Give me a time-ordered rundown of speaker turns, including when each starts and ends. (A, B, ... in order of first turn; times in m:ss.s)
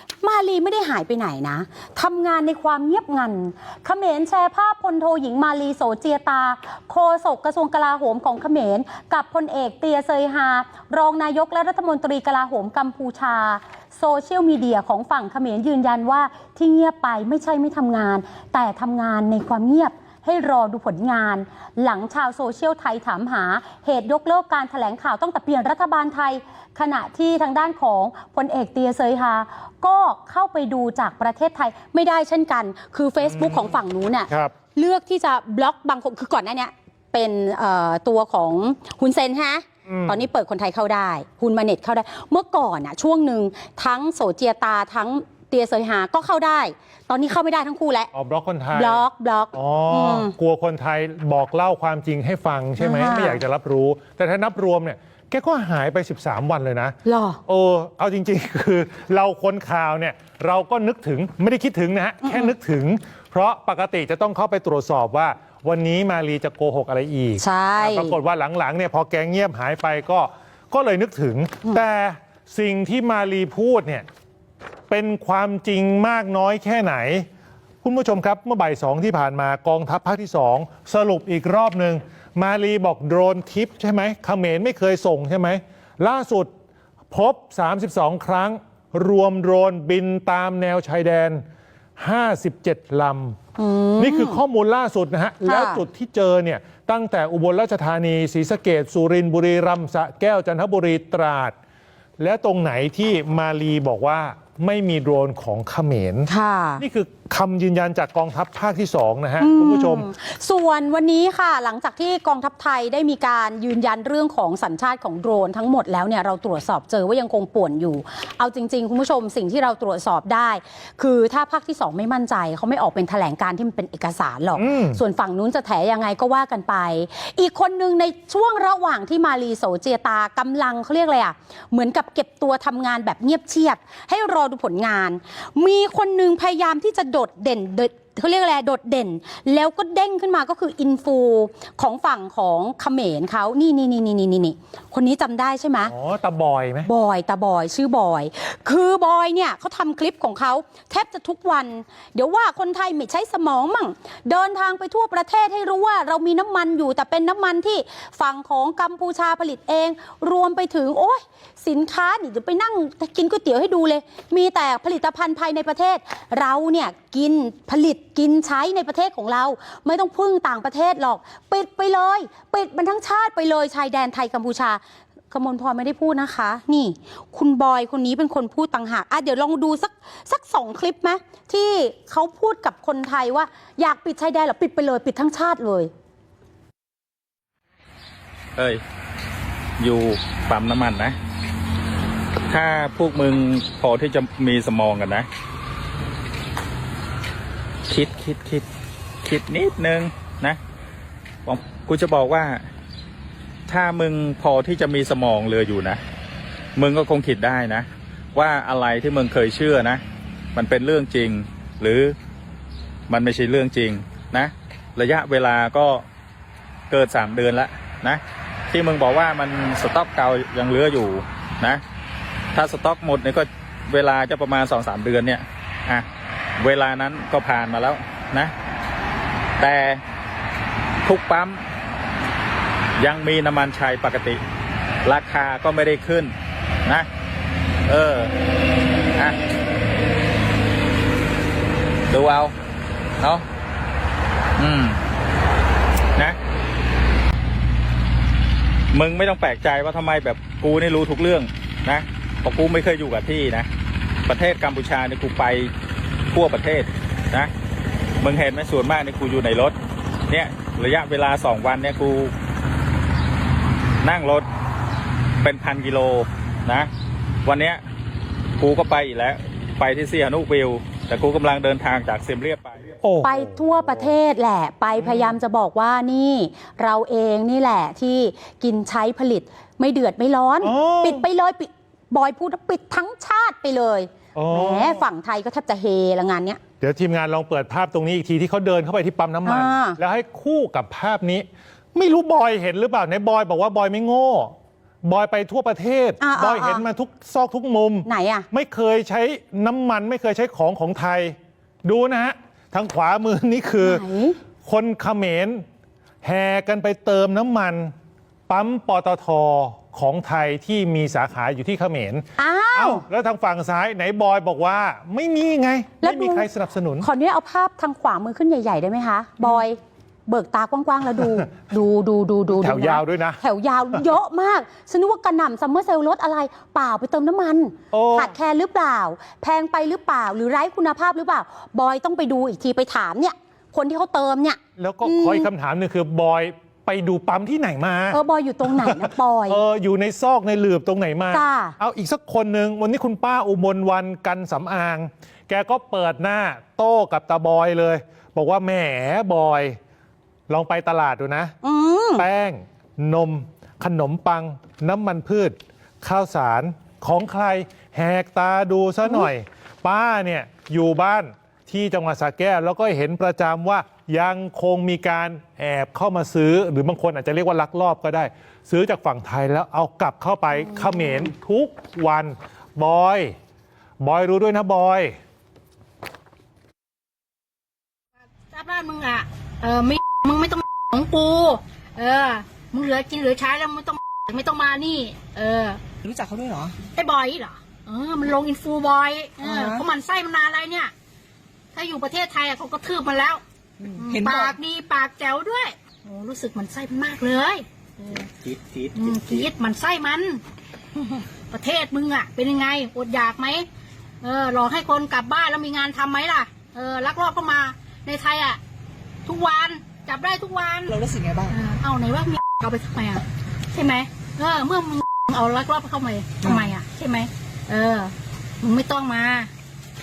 0:00.2-0:48.1 A
0:33.2-0:33.7 B
0:34.3-0:34.5 B
0:39.9-0:40.3 B
0:48.1-1:14.1 B
0:48.7-0:50.4 A
0:52.8-0:53.4 A
0:57.0-0:57.4 A
1:02.2-1:02.5 A
1:07.4-1:08.2 A
1:14.9-1:17.3 B
1:17.8-1:26.5 B
1:27.1-1:31.4 B
1:32.0-1:33.4 B
1:33.6-1:34.4 A
1:34.0-1:41.6 B
1:35.4-1:35.8 A
1:42.2-1:50.1 B
1:46.3-1:46.8 A
1:49.4-2:25.9 A
2:04.6-2:05.0 B
2:25.9-2:26.9 B
2:26.9-3:05.9 A
3:08.6-3:08.8 C
3:09.8-3:11.2 C
3:12.5-3:15.3 C
3:17.9-3:18.7 C
3:19.2-3:20.6 C
3:21.4-3:22.6 C
3:23.7-3:26.0 C
3:26.8-3:30.0 C
3:30.6-3:32.2 C
3:33.1-3:36.0 C
3:36.9-3:41.8 C
3:42.5-3:46.1 C
3:46.6-3:48.5 C
3:49.6-3:50.0 C
3:51.0-3:51.7 C
3:53.0-3:54.4 C
3:55.0-3:56.3 C
3:57.9-3:58.3 C
4:02.1-4:02.5 C
4:04.6-4:05.0 C
4:08.9-4:13.7 C
4:14.3-4:15.7 C
4:16.3-4:17.5 C
4:18.2-4:19.8 C
4:20.3-4:22.3 C
4:24.0-4:24.5 C
4:25.4-4:26.9 C
4:27.4-4:27.8 C
4:28.6-4:32.9 C
4:33.0-4:34.1 B
4:33.2-4:46.6 A
4:35.0-4:35.4 B
4:40.6-4:41.2 B
4:44.4-4:45.1 B
4:46.8-5:04.1 B
4:49.4-4:50.0 A
4:56.2-4:56.8 A
4:58.1-4:58.5 A
5:03.8-5:04.4 A
5:04.6-5:05.6 B
5:06.2-5:07.9 B
5:08.5-5:17.1 B
5:12.4-5:13.0 A
5:16.0-5:16.5 A
5:17.0-5:35.5 A
5:21.2-5:21.4 B
5:22.5-5:23.4 B
5:27.9-5:28.4 B
5:34.8-5:49.8 B
5:38.1-5:39.6 A
5:41.3-5:41.8 A
5:50.5-5:51.6 B
5:51.6-5:52.3 A
5:52.2-6:13.4 B
6:14.0-6:15.2 B
6:18.5-6:25.8 D
6:26.0-6:26.8 E
6:26.9-6:30.9 D
6:29.4-6:29.8 E
6:31.7-6:38.3 D
6:33.8-6:34.5 E
6:38.4-6:39.4 E
6:38.9-6:40.4 D
6:41.0-6:43.6 D
6:44.2-6:48.6 D
6:49.3-6:59.5 D
6:50.9-6:51.5 E